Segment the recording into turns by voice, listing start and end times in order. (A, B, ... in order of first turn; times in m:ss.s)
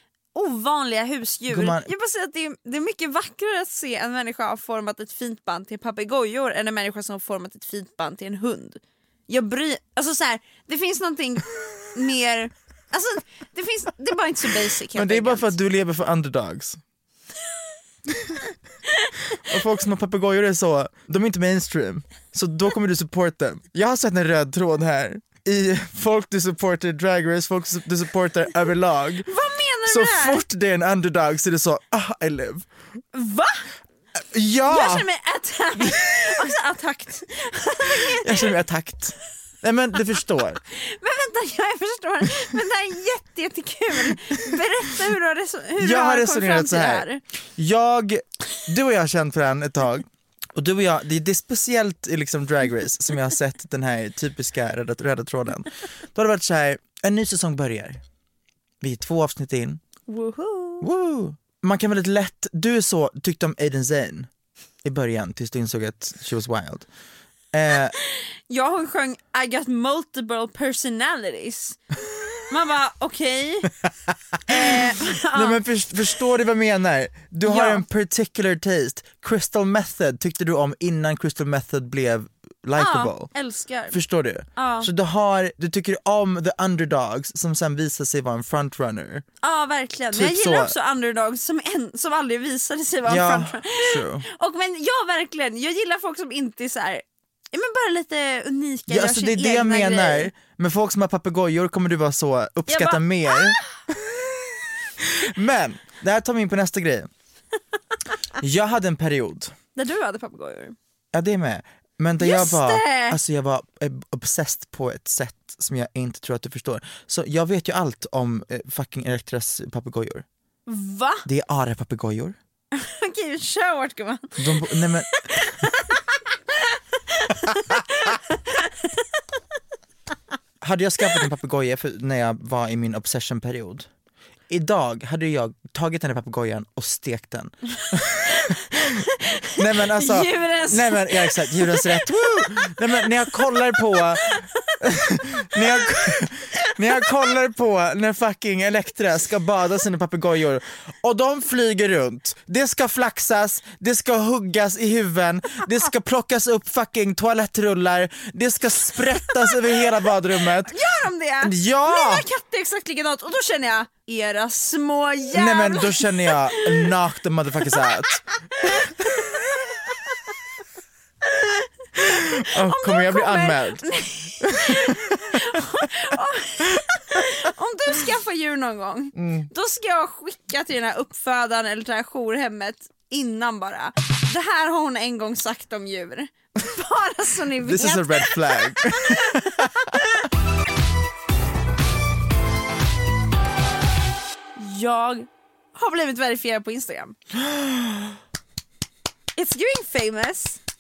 0:00.3-0:15.6 A
0:01.5-0:01.9 B
0:14.9-0:16.8 B
0:19.4-0:29.3 B
0:29.3-0:30.4 A
0:29.9-0:32.7 B
0:33.1-0:33.7 A
0:34.3-0:35.1 B
0:34.7-0:38.5 A
0:35.8-0:36.4 B
0:38.0-0:40.6 B
0:40.7-0:47.2 A
0:44.1-0:44.5 B
0:45.8-0:58.0 B
0:58.8-0:59.8 B
1:00.1-1:00.9 A
1:00.8-1:04.3 B
1:04.8-1:06.9 B
1:07.5-1:08.0 B
1:08.1-1:11.8 A
1:12.5-1:13.7 A
1:14.5-1:15.6 A
1:15.3-1:23.3 B
1:17.4-1:17.8 A
1:22.8-1:24.0 A
1:23.9-1:29.2 B
1:24.6-1:24.9 A
1:29.4-1:40.3 A
1:30.1-1:30.7 B
1:33.1-1:34.3 B
1:38.9-1:44.1 B
1:42.7-1:43.7 A
1:45.0-1:47.1 B
1:48.4-1:49.5 B
1:49.8-1:50.8 A
1:51.1-2:00.3 B
1:52.2-1:53.2 A
2:00.7-2:01.2 A
2:01.2-2:02.4 B
2:02.8-2:06.0 A
2:04.4-2:05.1 B
2:06.5-2:09.0 A
2:10.6-2:13.9 B
2:14.5-2:18.8 B
2:18.3-2:24.4 A
2:19.6-2:40.8 B
2:25.6-2:25.9 A
2:26.6-2:27.1 A
2:40.7-2:46.9 A
2:41.4-2:42.3 B
2:45.3-2:48.2 B
2:48.1-2:49.5 A
2:51.2-3:10.0 A
2:52.0-2:53.9 B
2:54.4-2:55.4 B
2:59.2-2:59.5 B
3:07.6-3:10.0 B
3:14.6-3:17.2 A
3:17.3-3:18.2 B
3:19.4-3:20.6 A